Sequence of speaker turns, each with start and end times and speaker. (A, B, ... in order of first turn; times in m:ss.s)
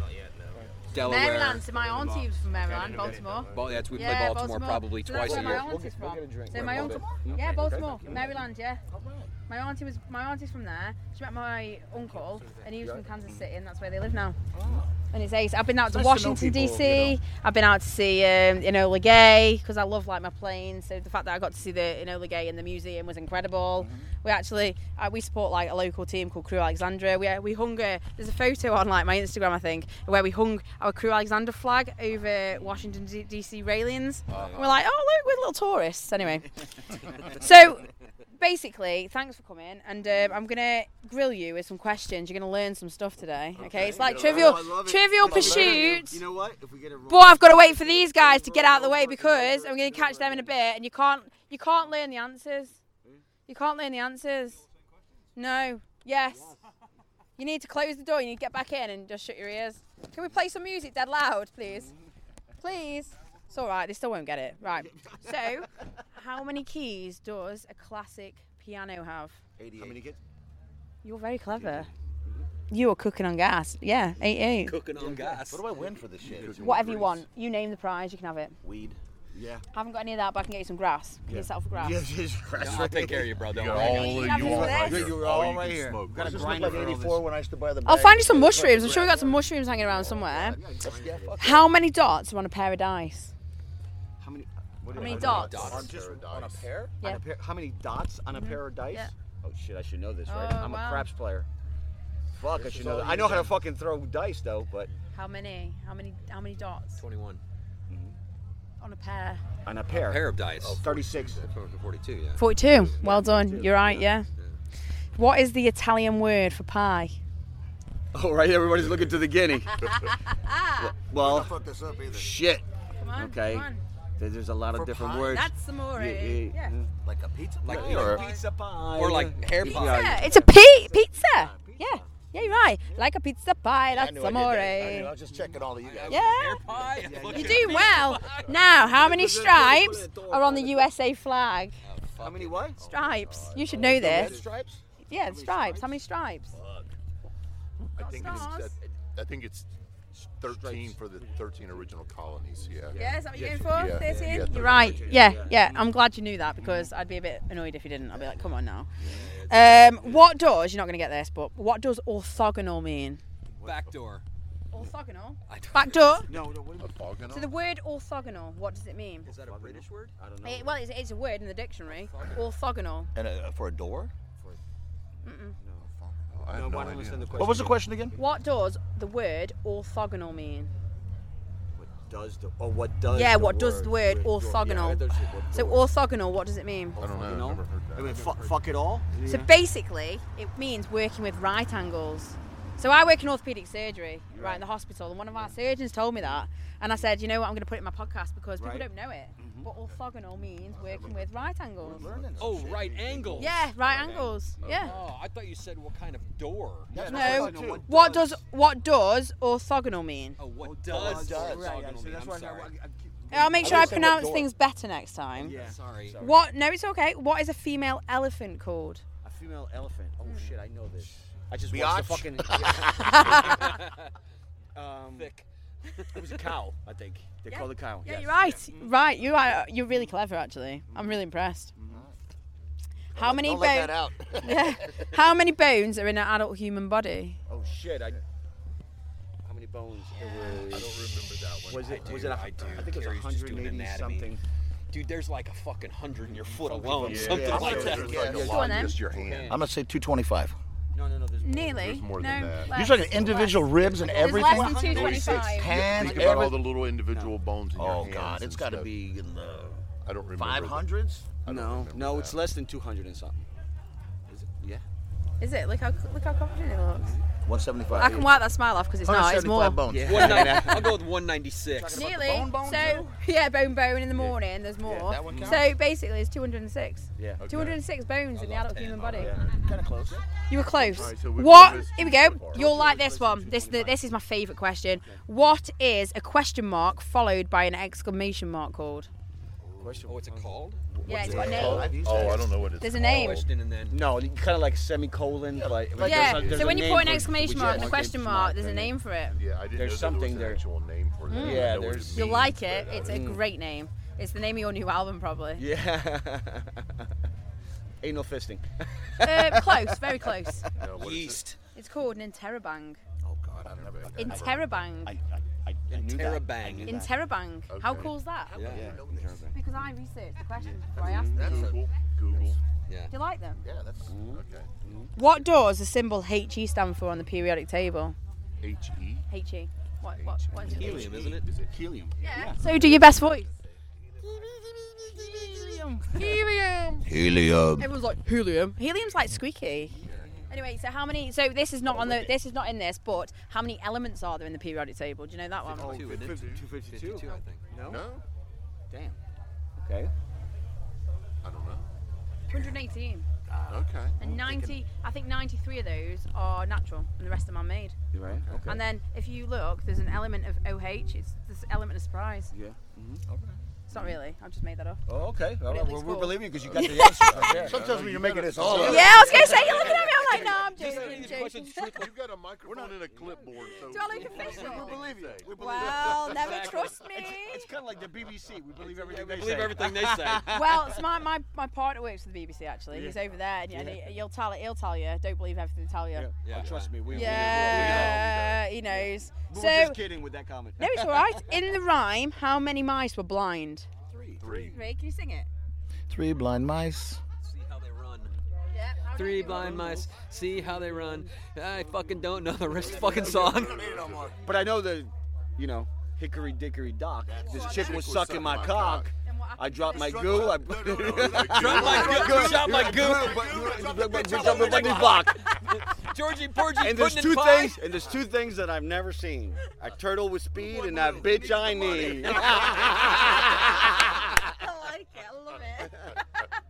0:00.9-0:01.7 A
0:00.9-0:08.8 B
0:01.7-0:03.9 C
0:02.7-0:03.5 D
0:03.0-0:05.7 A
0:05.2-0:08.4 C
0:06.6-0:07.3 E
0:08.1-0:09.3 E
0:09.5-0:14.4 B
0:12.8-0:13.4 C
0:14.5-0:14.9 E
0:14.6-0:14.9 C
0:15.1-0:36.5 B
0:15.9-0:17.2 E
0:23.8-0:24.1 E
0:34.3-0:34.8 D
0:34.3-0:34.6 C
0:37.3-0:37.9 B
0:38.4-0:46.2 B
0:40.1-0:40.4 C
0:43.6-0:44.7 D
0:43.7-0:50.5 C
0:45.3-0:45.8 E
0:47.1-0:52.8 B
0:53.5-0:54.6 B
0:55.4-0:56.5 B
0:56.3-0:56.5 C
0:57.4-1:01.9 B
1:02.6-1:09.4 B
1:05.0-1:05.3 C
1:09.6-1:10.0 E
1:09.8-1:10.2 C
1:11.0-1:11.9 B
1:11.5-1:12.4 C
1:12.7-1:14.7 B
1:14.6-1:15.6 A
1:14.9-1:15.4 C
1:15.5-1:16.7 E
1:16.3-1:17.2 D
1:16.6-1:18.6 B
1:18.6-1:19.0 E
1:19.3-1:19.6 C
1:19.7-1:22.0 B
1:21.3-1:23.4 C
1:22.5-1:24.6 A
1:23.5-1:26.9 D
1:23.8-1:25.1 B
1:24.3-1:27.2 C
1:24.9-1:29.4 E
1:27.8-1:30.6 B
1:30.0-1:31.5 C
1:30.1-1:31.7 E
1:31.4-1:33.3 B
1:34.2-1:41.5 C
1:34.9-1:35.8 B
1:35.0-1:36.6 D
1:35.0-1:36.9 E
1:35.2-1:35.9 A
1:38.3-1:39.1 B
1:40.3-1:41.1 B
1:42.3-1:44.9 C
1:42.6-1:43.5 D
1:42.6-1:43.2 E
1:45.1-1:47.0 B
1:47.0-1:47.4 A
1:47.9-1:48.2 C
1:48.8-1:49.4 B
1:49.6-1:51.5 C
1:49.9-1:50.8 A
1:50.5-1:51.6 D
1:51.5-1:52.4 A
1:52.4-1:54.2 B
1:52.7-1:52.9 D
1:53.0-1:54.0 C
1:55.2-1:57.2 B
1:58.1-2:00.0 C
1:59.7-2:00.9 B
2:00.8-2:01.5 C
2:01.2-2:02.3 E
2:02.1-2:06.9 C
2:02.9-2:03.8 B
2:04.7-2:05.2 E
2:04.9-2:06.7 B
2:07.0-2:08.2 E
2:07.6-2:10.3 A
2:07.6-2:10.7 C
2:09.6-2:15.1 B
2:11.1-2:11.8 E
2:11.8-2:13.0 C
2:13.9-2:16.3 E
2:15.5-2:18.6 A
2:16.1-2:16.6 B
2:16.7-2:18.0 C
2:17.3-2:21.7 B
2:18.7-2:20.9 C
2:21.8-2:22.6 A
2:22.2-2:24.6 C
2:22.8-2:24.4 B
2:23.7-2:24.8 E
2:25.1-2:26.5 B
2:25.2-2:26.0 C
2:26.5-2:26.9 C
2:27.8-2:35.2 D
2:28.0-2:28.8 B
2:30.5-2:31.4 C
2:32.7-2:35.8 C
2:32.9-2:38.9 B
2:38.1-2:39.3 C
2:39.0-2:40.3 A
2:39.4-2:43.2 B
2:43.6-2:44.2 A
2:44.7-2:46.3 B
2:45.5-2:46.4 A
2:46.3-2:47.0 C
2:46.7-2:47.5 D
2:47.3-2:49.3 B
2:49.2-2:50.1 A
2:49.2-2:50.8 C
2:50.4-2:53.1 B
2:51.9-2:52.5 A
2:53.1-2:54.1 E
2:55.2-2:55.6 B
2:55.6-2:55.9 C
2:56.0-2:57.6 D
2:56.5-2:57.8 C
2:57.4-2:58.2 E
2:58.1-3:00.7 B
3:01.7-3:05.9 C
3:03.1-3:07.0 B
3:07.0-3:09.5 C
3:07.0-3:08.6 D
3:09.2-3:22.1 B
3:14.3-3:14.6 C
3:18.6-3:18.8 C
3:19.4-3:19.7 C
3:20.7-3:21.2 E
3:20.9-3:21.2 C
3:21.8-3:23.7 E
3:21.8-3:22.6 C
3:22.4-3:23.6 A
3:23.4-3:24.9 B
3:23.8-3:24.8 C
3:24.6-3:25.0 D
3:24.8-3:27.1 A
3:26.9-3:27.8 E
3:26.9-3:28.4 C
3:27.0-3:30.4 B
3:30.4-3:32.7 A
3:30.6-3:34.5 C
3:31.0-3:31.8 E
3:33.3-3:35.6 B
3:33.6-3:33.9 A
3:33.7-3:34.0 E
3:35.4-3:36.4 C
3:35.4-3:36.2 A
3:36.2-3:39.0 B
3:39.2-3:43.7 C
3:41.6-3:42.7 E
3:42.9-3:43.7 B
3:43.4-3:44.1 A
3:44.7-3:45.3 C
3:45.1-3:46.4 A
3:46.1-3:48.9 C
3:47.4-3:51.7 B
3:50.9-3:51.2 C
3:51.8-3:52.0 C
3:53.1-3:55.0 E
3:53.1-3:57.4 B
3:57.5-3:58.2 C
3:59.4-4:01.0 C
4:00.2-4:00.8 B
4:00.7-4:02.6 D
4:01.7-4:04.4 C
4:01.7-4:04.3 A
4:04.9-4:08.6 A
4:06.6-4:09.6 C
4:07.0-4:09.5 D
4:07.3-4:08.6 E
4:08.4-4:09.0 B
4:09.4-4:10.6 E
4:10.9-4:11.9 C
4:11.4-4:16.4 B
4:11.8-4:12.8 D
4:12.7-4:16.7 E
4:13.8-4:16.2 C
4:14.8-4:19.0 D
4:17.1-4:17.4 C
4:17.7-4:19.8 E
4:20.0-4:20.8 D
4:20.4-4:21.3 E
4:21.4-4:22.5 D
4:21.4-4:23.5 C
4:24.3-4:24.8 C
4:25.4-4:27.1 B
4:27.4-4:28.3 E
4:27.9-4:28.2 C
4:28.0-4:30.9 B
4:29.0-4:30.6 E
4:29.9-4:31.0 C
4:30.0-4:32.0 A
4:31.7-4:33.1 E
4:31.9-4:39.4 B
4:34.8-4:35.7 E
4:35.2-4:35.6 C
4:37.2-4:37.5 C
4:37.4-4:37.8 D
4:38.3-4:39.4 A
4:39.2-4:40.2 C
4:39.5-4:40.2 E
4:40.5-4:49.1 B
4:40.8-4:42.7 D
4:42.5-4:44.0 C
4:49.8-4:52.3 C
4:50.0-4:50.8 A
4:51.0-4:53.5 B
4:51.1-4:53.5 D
4:51.1-4:52.7 E
4:53.1-4:54.0 A
4:53.9-4:58.9 C
4:55.5-4:56.4 E
4:56.0-4:57.9 D
4:56.0-4:59.4 B
4:59.3-5:03.3 D
4:59.7-5:00.6 C
5:01.3-5:05.6 B
5:01.3-5:02.5 C
5:03.0-5:03.4 C
5:05.6-5:07.1 C
5:08.0-5:10.7 C
5:09.2-5:10.7 B
5:10.8-5:11.4 D
5:11.0-5:11.6 A
5:11.7-5:13.0 B
5:13.3-5:13.6 C
5:13.3-5:14.6 E
5:13.6-5:14.3 D
5:14.1-5:15.1 B
5:14.1-5:17.1 C
5:15.9-5:17.0 A
5:16.8-5:18.6 B
5:17.7-5:18.1 D
5:18.5-5:18.9 A
5:18.6-5:19.5 E
5:18.6-5:19.7 C
5:19.5-5:21.7 B
5:20.6-5:21.5 C
5:21.1-5:21.8 E
5:21.3-5:22.6 D
5:23.1-5:23.6 B
5:23.6-5:24.2 E
5:24.1-5:25.1 C
5:24.3-5:24.7 D
5:25.2-5:28.2 B
5:28.6-5:29.3 D
5:29.3-5:31.1 B
5:30.1-5:32.5 D
5:30.6-5:31.4 A
5:30.7-5:31.4 C
5:32.2-5:33.5 B
5:32.3-5:33.2 C
5:34.2-5:36.0 E
5:36.1-5:37.0 D
5:36.1-5:37.0 B
5:37.0-5:37.9 E
5:37.8-5:46.0 B
5:40.0-5:40.4 C
5:41.9-5:42.3 C
5:45.6-5:47.7 A
5:45.7-5:48.0 C
5:46.2-5:46.6 D
5:47.8-5:48.2 D
5:48.9-5:49.2 C
5:49.8-5:50.1 C
5:51.4-5:51.9 D
5:52.5-5:53.3 B
5:53.5-5:54.8 C
5:53.7-5:54.3 D
5:54.2-5:57.9 B
5:58.1-5:58.8 C
5:58.6-6:02.5 B
6:02.5-6:03.2 C
6:03.3-6:03.6 E
6:03.9-6:05.0 B
6:03.9-6:04.2 C
6:05.1-6:11.4 C
6:05.6-6:07.3 B
6:06.6-6:08.0 D
6:06.7-6:10.1 E
6:08.6-6:09.0 D
6:08.8-6:12.1 B
6:09.4-6:12.1 A
6:11.9-6:16.9 D
6:12.6-6:13.1 E
6:13.8-6:17.7 B
6:14.2-6:21.0 C
6:14.5-6:15.9 E
6:16.3-6:16.9 A
6:18.7-6:20.9 A
6:20.4-6:26.3 B
6:22.9-6:24.2 C
6:26.1-6:28.2 C
6:26.4-6:28.2 A
6:26.5-6:28.7 D
6:27.1-6:30.0 B
6:28.8-6:31.6 C
6:30.8-6:33.9 B
6:34.1-6:34.4 C
6:34.4-6:34.8 D
6:34.4-6:35.5 B
6:36.1-6:37.2 E
6:37.4-6:38.3 A
6:38.7-6:40.1 B
6:39.1-6:43.8 A
6:42.7-6:44.4 E
6:43.0-6:43.6 C
6:43.5-6:44.3 D
6:44.4-6:55.4 C
6:47.2-6:47.8 E
6:47.4-6:48.1 B
6:47.6-6:49.1 D
6:49.2-6:50.5 B
6:49.9-6:55.3 E
6:50.8-6:53.7 D
6:51.4-6:57.9 A
6:56.8-7:04.3 C
7:00.6-7:02.2 E
7:01.6-7:02.3 D
7:02.2-7:03.2 A
7:04.2-7:06.5 B